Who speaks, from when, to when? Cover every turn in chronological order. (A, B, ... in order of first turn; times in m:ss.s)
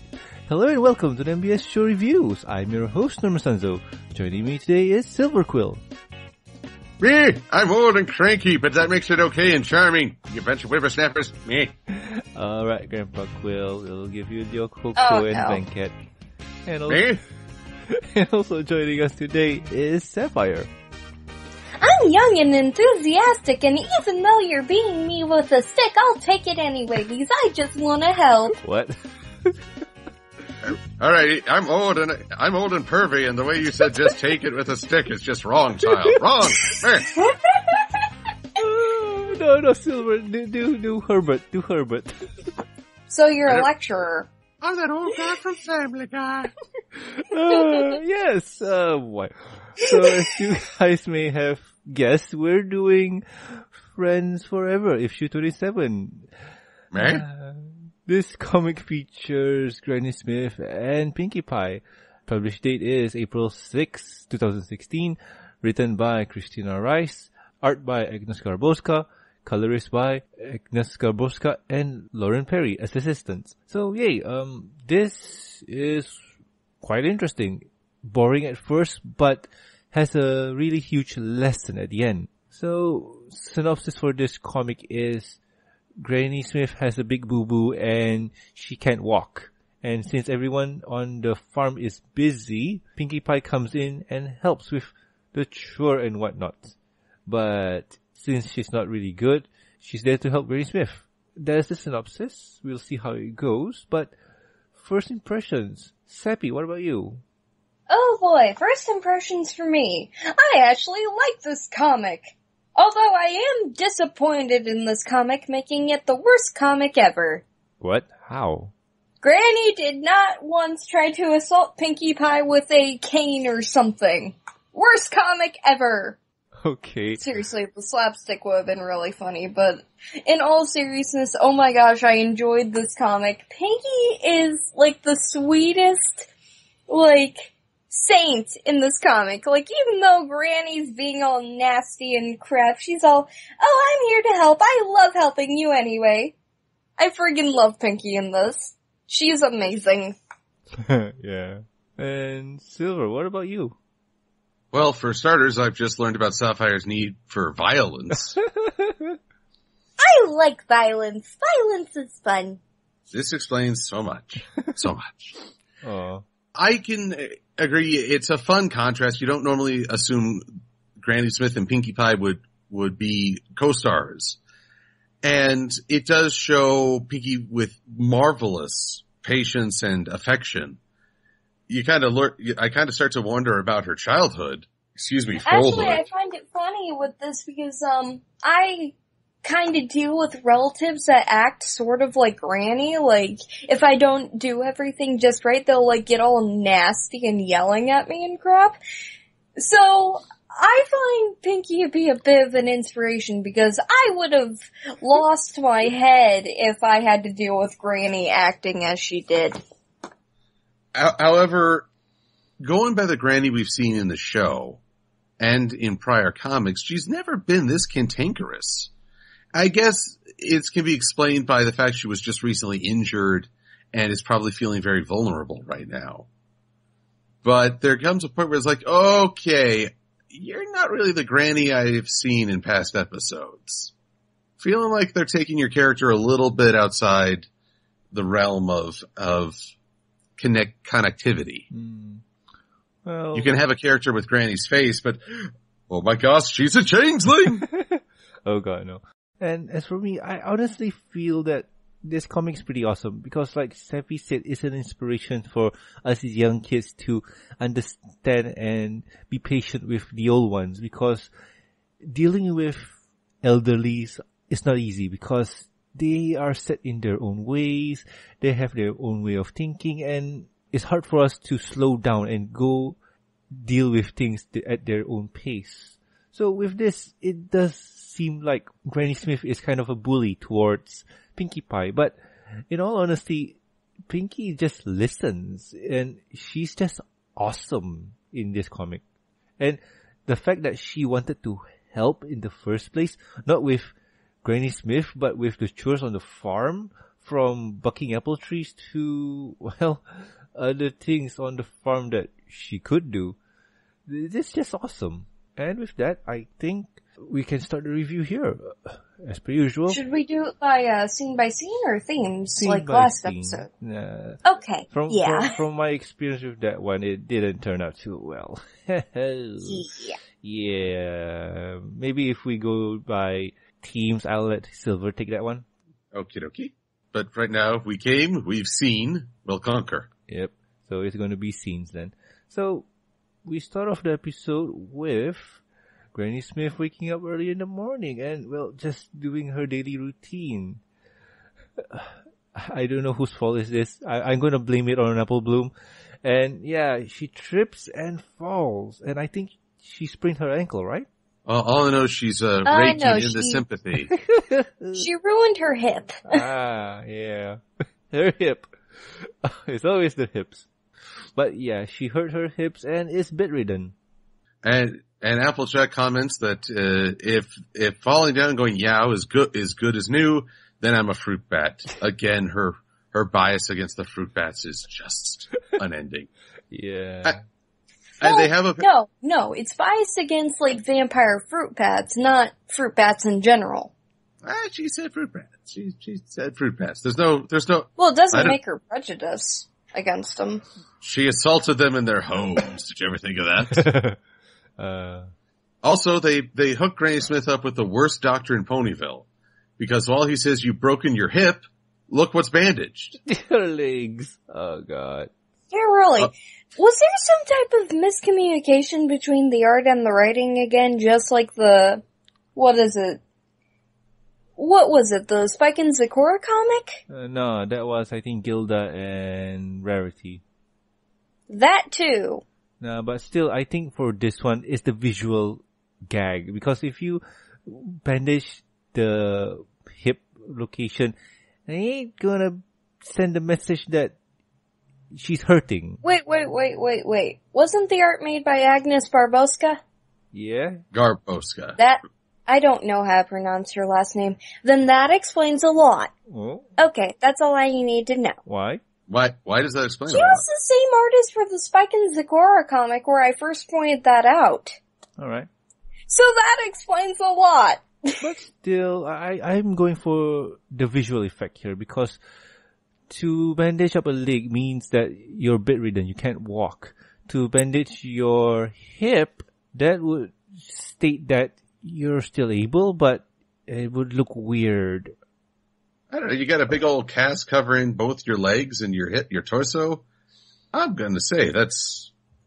0:00.5-0:05.8 A
0:07.0-0:11.7 B
0:11.9-0:15.9 A
0:15.0-0:15.6 C
0:16.6-0:17.1 A
0:16.9-0:17.2 B
0:17.9-0:20.7 A
0:21.8-0:28.6 C
0:28.6-0:29.6 A
0:30.6-0:37.1 B
0:37.2-0:38.0 C
0:38.6-0:42.3 A
0:43.1-0:44.3 C
0:44.6-0:46.5 B
0:47.0-0:56.3 A
0:47.6-0:47.9 C
0:56.9-0:57.2 B
0:57.0-1:16.3 A
1:16.8-1:25.4 A
1:26.0-1:36.8 A
1:37.3-1:44.1 A
1:44.8-1:47.2 A
1:47.9-1:57.4 C
1:57.8-1:58.7 A
1:59.2-2:06.2 C
2:06.6-2:07.2 A
2:07.2-2:16.3 C
2:16.9-2:26.3 C
2:27.0-2:30.2 C
2:30.7-2:33.8 A
2:34.7-2:38.4 B
2:38.6-2:39.2 A
2:40.0-2:42.6 C
2:43.1-2:45.4 B
2:45.8-2:46.2 A
2:46.6-2:50.4 B
2:51.0-2:54.4 B
2:55.2-3:00.8 B
3:01.7-3:06.0 B
3:05.5-3:18.8 C
3:19.6-3:29.6 C
3:31.0-3:31.9 B
3:32.6-3:34.8 B
3:35.4-3:38.9 B
3:39.5-3:46.3 B
3:47.4-3:53.9 B
3:54.6-3:57.5 B
3:58.1-3:59.6 B
4:00.4-4:01.7 B
4:01.7-4:02.2 A
4:03.0-4:03.5 A
4:03.3-4:07.6 B
4:07.6-4:21.3 A
4:22.0-4:33.0 A
4:33.5-4:42.2 A
4:42.7-4:43.6 A
4:44.1-4:49.0 A
4:49.6-5:03.4 A
5:04.1-5:10.0 A
5:09.9-5:13.7 C
5:12.6-5:25.6 A
5:14.4-5:15.6 C
5:19.6-5:20.2 C
5:26.1-5:30.1 B
5:30.3-5:32.9 A
5:33.4-5:35.6 A
5:36.1-5:40.8 A
5:41.8-5:45.7 A
5:46.2-5:51.1 A
5:51.5-5:54.1 B
5:52.6-5:53.6 C
5:54.1-5:55.1 A
5:55.0-5:56.4 C
5:56.3-6:00.7 A
6:01.4-6:03.9 A
6:04.6-6:16.3 B
6:16.7-6:17.4 A
6:18.2-6:23.9 C
6:18.2-6:18.9 B
6:24.4-6:28.6 B
6:28.0-6:30.6 C
6:31.0-6:33.9 B
6:33.7-6:34.2 A
6:34.8-6:35.3 A
6:35.8-6:39.3 B
6:39.8-6:43.1 B
6:43.3-6:45.3 A
6:45.7-6:52.0 C
6:52.6-6:53.2 C
6:54.6-6:57.0 C
6:57.1-7:00.4 A
7:01.5-7:02.4 C
7:02.8-7:11.1 A
7:11.7-7:14.2 A
7:15.1-7:16.0 A
7:16.0-7:19.8 C
7:20.3-7:20.8 A
7:20.9-7:21.8 B
7:21.8-7:26.1 C
7:26.3-7:26.7 A
7:26.8-7:28.4 C
7:28.5-7:28.8 A
7:29.1-7:30.4 B
7:30.1-7:34.8 C
7:35.2-7:35.5 A
7:36.1-7:38.2 C
7:38.2-7:42.2 A
7:43.1-7:55.1 A
7:56.1-8:00.0 B
8:00.7-8:02.1 B